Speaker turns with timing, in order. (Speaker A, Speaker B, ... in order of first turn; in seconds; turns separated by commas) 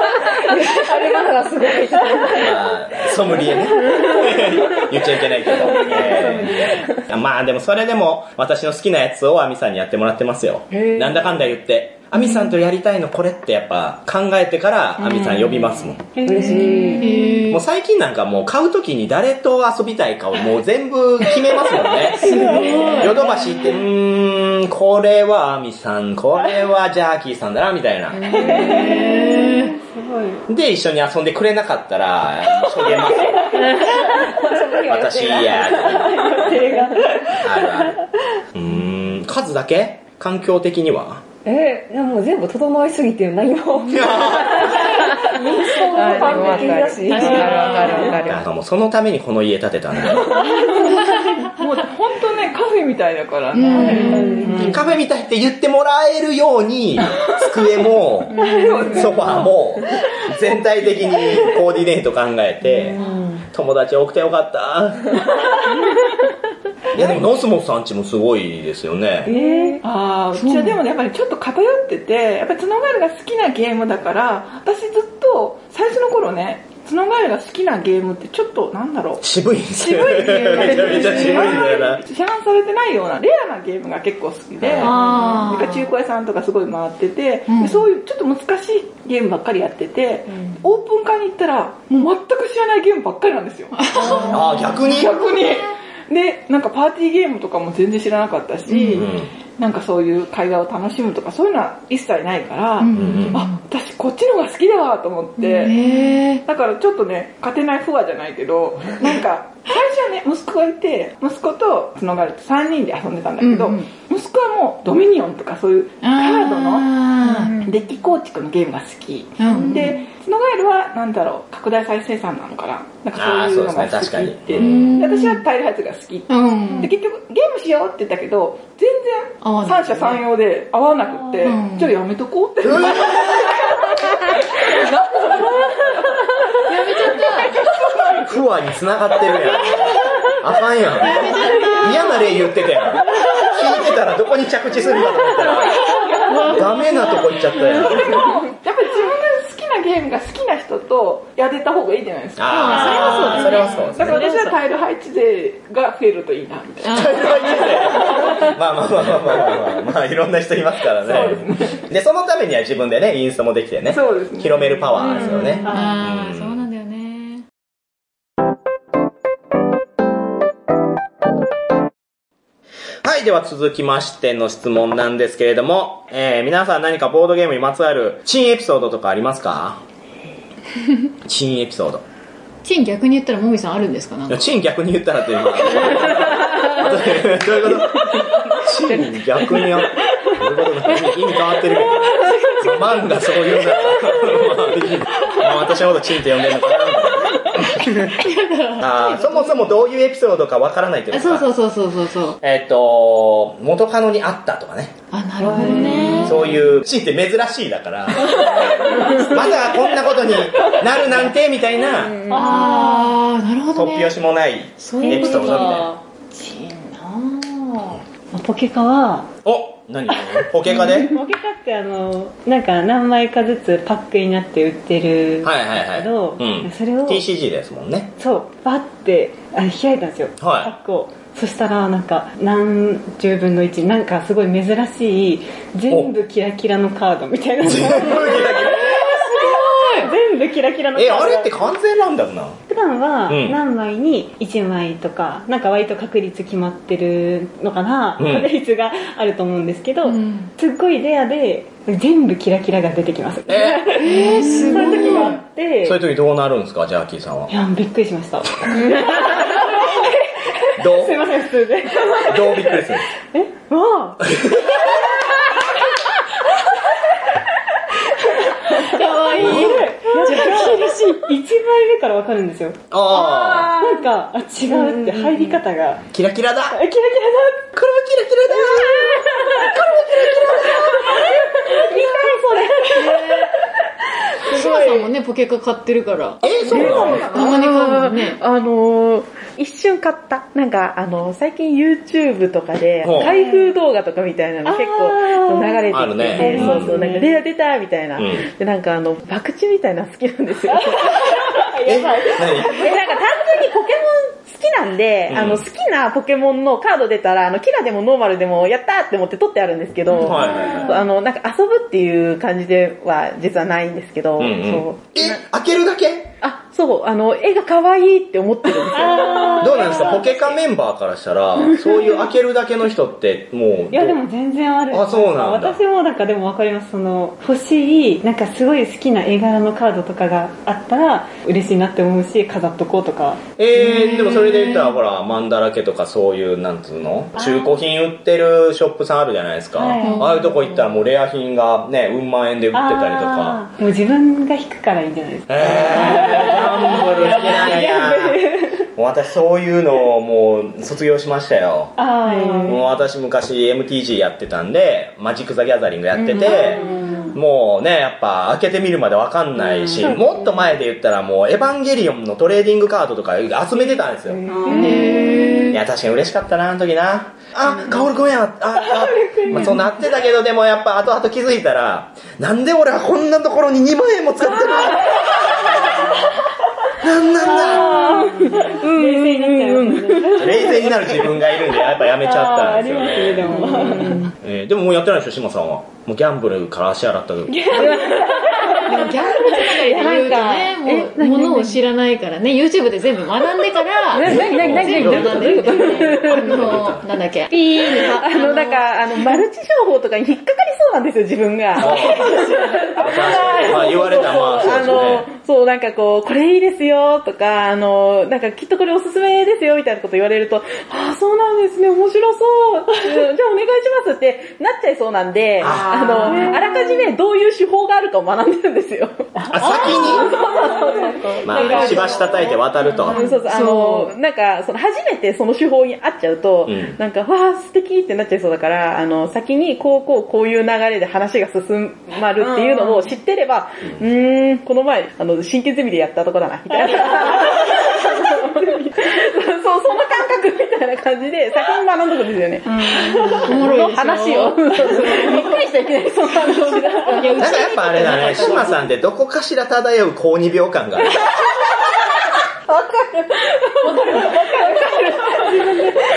Speaker A: 0.3-2.6, Speaker B: 2.4-16.1, Speaker A: 5.7-6.2, Speaker C: 5.8-6.9, Speaker A: 10.7-11.2, Speaker D: 12.2-12.5, Speaker E: 15.0-15.8, Speaker C: 16.1-17.3, Speaker A: 16.2-17.2, Speaker D: 16.9-17.6, Speaker B: 17.5-28.5, Speaker D: 22.2-23.3, Speaker C: 22.2-23.5, Speaker D: 28.3-29.8, Speaker C: 28.3-30.4, Speaker E: 28.4-28.9, Speaker B: 30.5-33.9, Speaker A: 33.3-37.1, Speaker B: 34.8-36.5, Speaker C: 36.3-37.9, Speaker B: 37.4-41.2, Speaker A: 41.4-48.1, Speaker B: 43.9-45.0, Speaker F: 44.8-48.4, Speaker C: 46.4-46.7, Speaker E: 47.1-48.2, Speaker C: 47.2-48.1, Speaker D: 47.7-48.1, Speaker B: 48.2-50.4, Speaker E: 50.3-54.9, Speaker D: 50.8-51.6, Speaker D: 53.5-54.6, Speaker C: 53.7-54.8, Speaker A: 54.0-54.7, Speaker B: 54.6-63.0, Speaker E: 58.3-59.5, Speaker D: 58.4-59.0, Speaker A: 62.9-63.4, Speaker B: 63.5-65.2, Speaker B: 66.9-69.3, Speaker A: 69.2-69.8, Speaker C: 69.2-69.8, Speaker E: 69.3-79.2, Speaker D: 70.3-70.8, Speaker B: 79.2-82.0, Speaker E: 79.8-105.9, Speaker D: 80.6-80.8, Speaker B: 84.6-84.9, Speaker D: 84.8-85.9, Speaker D: 87.5-87.9, Speaker D: 93.7-95.5, Speaker B: 94.1-95.6, Speaker D: 98.7-99.1, Speaker B: 98.9-99.3, Speaker D: 102.8-103.6, Speaker B: 102.9-103.4, Speaker D: 105.4-106.4, Speaker E: 106.4-138.4, Speaker D: 113.4-113.9, Speaker D: 116.0-117.7, Speaker D: 119.4-120.0, Speaker B: 123.1-125.0, Speaker D: 124.5-125.4, Speaker D: 126.3-126.9, Speaker D: 129.4-130.2, Speaker D: 131.4-131.9, Speaker B: 132.6-133.6, Speaker D: 136.7-137.6, Speaker B: 138.2-145.8, Speaker D: 141.0-142.2, Speaker E: 141.3-141.8, Speaker E: 145.4-158.5, Speaker D: 146.2-148.1, Speaker B: 146.4-148.3, Speaker B: 152.4-154.2, Speaker D: 152.5-154.6, Speaker D: 156.8-158.3, Speaker B: 156.9-166.6, Speaker E: 161.0-161.8, Speaker E: 163.9-165.8, Speaker D: 165.6-167.4, Speaker C: 165.7-165.9, Speaker B: 173.0-179.8, Speaker B: 181.2-182.0, Speaker D: 182.6-184.5, Speaker B: 184.3-198.1, Speaker D: 185.8-186.6, Speaker D: 192.1-192.8, Speaker D: 197.8-199.7, Speaker B: 198.8-201.5, Speaker D: 201.1-202.4, Speaker B: 202.4-204.9, Speaker D: 205.1-206.6, Speaker C: 205.4-206.4, Speaker B: 206.0-212.3, Speaker D: 208.2-209.3, Speaker D: 212.3-214.1, Speaker C: 212.3-213.1, Speaker B: 213.7-215.9, Speaker D: 214.8-218.0, Speaker C: 215.0-215.8, Speaker C: 218.3-219.3, Speaker B: 219.4-221.1, Speaker D: 220.8-221.0, Speaker C: 221.0-227.2, Speaker B: 225.4-228.1, Speaker C: 228.2-241.7, Speaker B: 230.4-230.7, Speaker B: 237.6-239.1, Speaker D: 238.7-240.1, Speaker B: 240.9-242.6, Speaker C: 242.7-256.0, Speaker B: 243.3-243.6, Speaker B: 248.2-248.5, Speaker D: 250.0-250.5, Speaker B: 253.5-254.2, Speaker D: 253.9-255.4, Speaker B: 255.8-257.5, Speaker C: 257.5-264.5, Speaker B: 260.8-261.3, Speaker B: 262.2-263.1, Speaker B: 264.2-264.9, Speaker C: 268.3-276.0, Speaker D: 268.7-271.3, Speaker B: 269.3-269.8, Speaker B: 272.9-273.8, Speaker B: 276.1-276.8, Speaker C: 276.7-277.7, Speaker B: 277.7-280.8, Speaker C: 281.7-283.3, Speaker F: 281.8-283.2, Speaker D: 282.9-283.5, Speaker D: 284.4-288.4, Speaker B: 286.4-287.3, Speaker E: 286.7-287.6, Speaker F: 286.7-301.4, Speaker C: 286.8-287.2, Speaker B: 293.0-293.3, Speaker C: 293.1-293.7, Speaker C: 294.6-297.4, Speaker B: 295.9-297.0, Speaker B: 298.2-298.5, Speaker C: 300.7-302.9, Speaker B: 301.9-302.9, Speaker F: 302.5-315.4, Speaker B: 305.3-305.6, Speaker B: 310.1-311.0, Speaker C: 310.2-311.0, Speaker B: 314.4-316.3, Speaker F: 316.4-320.4, Speaker C: 318.9-320.4, Speaker B: 319.6-324.2, Speaker F: 321.7-322.2, Speaker C: 323.9-333.4, Speaker B: 324.9-325.8, Speaker B: 333.6-343.6, Speaker D: 333.8-334.9, Speaker C: 337.4-337.8, Speaker C: 339.8-340.3, Speaker D: 340.0-340.9, Speaker C: 342.7-348.8, Speaker B: 345.5-352.0, Speaker C: 352.0-352.8, Speaker B: 352.6-364.4, Speaker F: 356.2-357.1, Speaker C: 356.4-357.3, Speaker C: 359.8-360.7, Speaker C: 363.9-365.7, Speaker E: 364.5-365.4, Speaker D: 364.7-365.8, Speaker B: 365.7-375.8, Speaker C: 368.8-369.9, Speaker B: 377.0-377.9, Speaker C: 377.4-384.3, Speaker F: 377.6-380.4, Speaker B: 380.4-383.8, Speaker F: 383.5-384.3, Speaker B: 384.4-387.9, Speaker C: 387.5-389.9, Speaker F: 387.7-391.8, Speaker D: 388.8-398.8, Speaker F: 394.1-396.6, Speaker B: 394.1-397.1, Speaker F: 397.5-448.8, Speaker B: 401.8-402.4, Speaker B: 403.0-405.3, Speaker B: 415.6-416.2, Speaker E: 415.9-416.6, Speaker C: 416.2-416.8, Speaker C: 419.4-422.2, Speaker B: 419.5-420.3, Speaker B: 421.4-423.2, Speaker E: 421.5-422.2, Speaker D: 423.1-424.1, Speaker B: 426.6-427.0, Speaker E: 432.4-433.0, Speaker D: 443.4-445.6, Speaker D: 446.2-448.8, Speaker B: 447.4-451.3, Speaker F: 452.7-455.6, Speaker C: 455.4-456.0